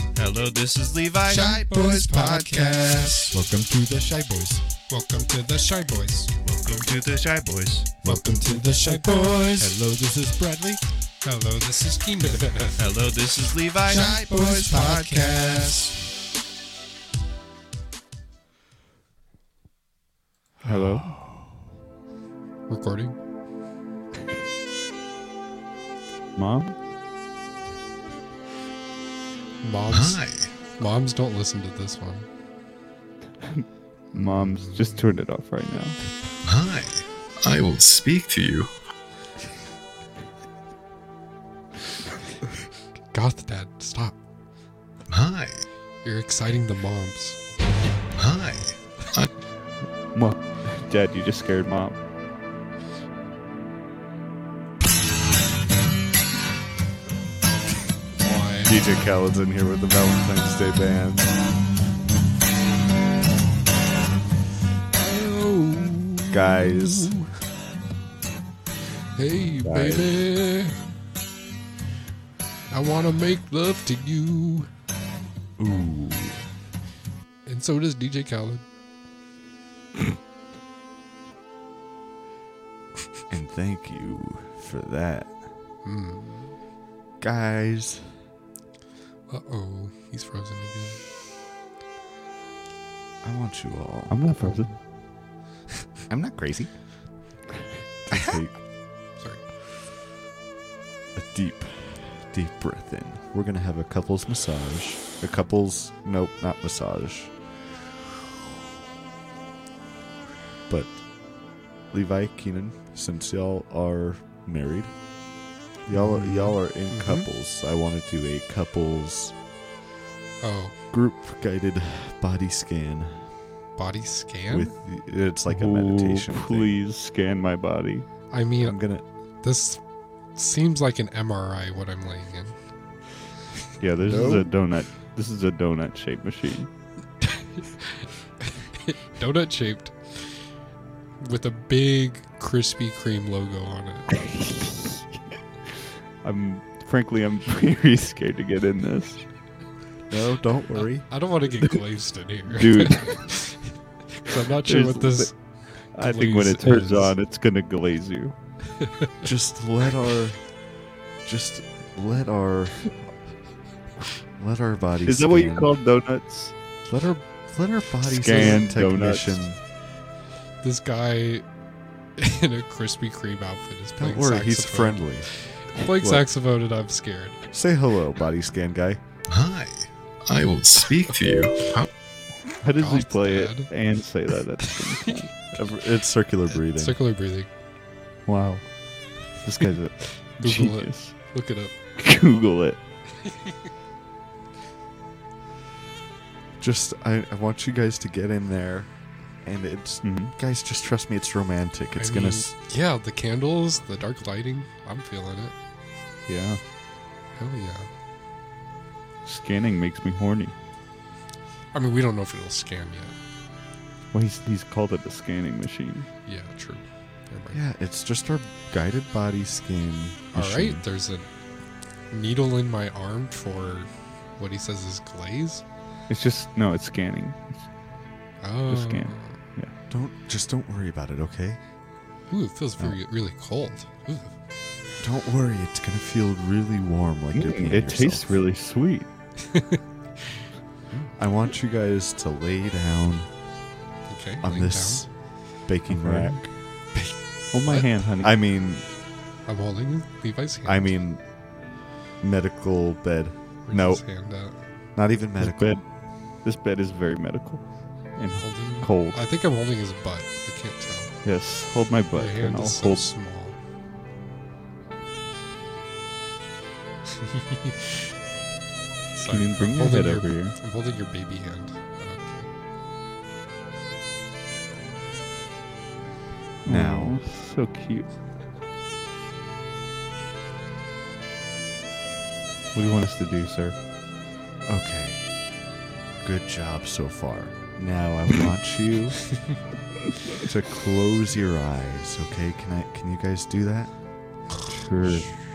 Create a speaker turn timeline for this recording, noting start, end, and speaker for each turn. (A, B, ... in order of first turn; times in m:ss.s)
0:00.2-0:04.6 A
0:01.3-0:03.4 B
0:04.9-0:06.3 B
0:06.4-0:09.8 A
0:08.0-0:12.8 B
0:12.8-0:15.9 A
0:13.9-0:15.9 B
0:20.6-0:21.2 C
0:20.8-0:21.5 D
0:22.7-0:23.2 B
0:26.4-0:26.7 C
0:29.6-0:32.3 B
0:29.9-0:30.6 E
0:33.4-0:36.0 C
0:34.2-0:35.0 B
0:36.4-0:38.7 E
0:43.1-0:44.2 B
0:45.1-0:45.7 E
0:46.0-0:47.4 B
0:48.2-0:49.3 E
0:50.1-0:52.0 C
0:58.2-0:58.8 B
0:58.7-1:01.4 D
1:04.9-1:07.3 B
1:06.3-1:07.2 D
1:09.2-1:10.8 B
1:09.6-1:10.2 D
1:12.7-1:14.7 B
1:15.6-1:16.4 D
1:17.5-1:18.6 B
1:23.3-1:25.3 D
1:25.8-1:26.6 B
1:27.2-1:28.2 D
1:29.3-1:31.0 B
1:33.2-1:34.2 D
1:34.1-1:34.8 C
1:36.1-1:36.7 D
1:38.1-1:38.6 D
1:39.2-1:39.4 B
1:41.1-1:47.3 D
1:50.7-1:51.1 D
1:51.9-1:55.0 D
1:55.9-1:59.3 D
1:55.9-1:57.3 B
2:00.4-2:00.8 B
2:00.9-2:03.3 D
2:03.8-2:04.7 B
2:04.5-2:06.8 D
2:05.5-2:08.1 C
2:08.3-2:08.8 B
2:08.6-2:09.0 D
2:09.4-2:09.8 B
2:10.4-2:12.6 B
2:13.8-2:16.7 C
2:14.0-2:14.5 D
2:17.3-2:19.9 B
2:21.2-2:24.1 B
2:24.1-2:25.1 C
2:26.2-2:29.2 C
2:30.1-2:31.1 D
2:30.7-2:33.7 B
2:32.5-2:33.3 C
2:34.2-2:37.2 B
2:34.6-2:38.3 C
2:39.2-2:40.4 D
2:41.2-2:42.9 D
2:44.4-2:45.7 D
2:45.0-2:46.6 C
2:46.9-2:49.6 D
2:48.0-2:49.4 C
2:50.6-2:51.4 B
2:52.2-2:57.4 B
2:54.0-2:55.3 D
2:56.0-2:56.2 C
2:57.5-2:59.0 D
2:59.3-3:01.9 E
3:02.6-3:05.3 C
3:02.8-3:03.7 B
3:05.5-3:07.0 D
3:06.7-3:07.5 B
3:08.3-3:08.7 C
3:09.4-3:11.2 C
3:10.2-3:11.7 B
3:12.0-3:12.8 C
3:16.6-3:18.9 D
3:19.4-3:22.5 D
3:20.0-3:20.3 C
3:22.0-3:25.5 B
3:26.3-3:26.6 C
3:27.3-3:27.9 B
3:29.2-3:30.5 C
3:31.7-3:33.2 B
3:34.1-3:36.1 C
3:36.3-3:37.6 B
3:37.5-3:40.8 D
3:40.3-3:41.3 B
3:42.1-3:45.6 B
3:46.1-3:47.6 C
3:48.4-3:49.4 B
3:48.7-3:49.7 C
3:49.9-3:51.6 D
3:52.3-3:54.3 B
3:55.0-3:58.3 D
3:57.3-3:59.1 C
3:59.5-3:59.8 B
4:00.9-4:03.3 D
4:04.1-4:05.0 B
4:04.4-4:06.5 D
4:05.9-4:06.4 C
4:06.9-4:07.9 B
4:07.5-4:08.3 C
4:08.2-4:08.8 D
4:09.5-4:10.9 B
4:10.7-4:11.2 D
4:12.2-4:14.0 D
4:13.7-4:14.6 B
4:15.0-4:15.8 D
4:15.4-4:15.9 C
4:16.4-4:17.6 C
4:18.2-4:19.2 C
4:18.4-4:21.2 B
4:21.2-4:23.1 C
4:22.1-4:23.6 B
4:29.2-4:32.5 B
4:29.3-4:30.6 C
4:36.6-4:38.1 C
4:36.7-4:37.2 D
4:42.7-4:43.8 C
4:44.7-4:45.2 D
4:46.2-4:49.4 D
4:50.4-4:53.9 D
4:54.7-4:55.4 C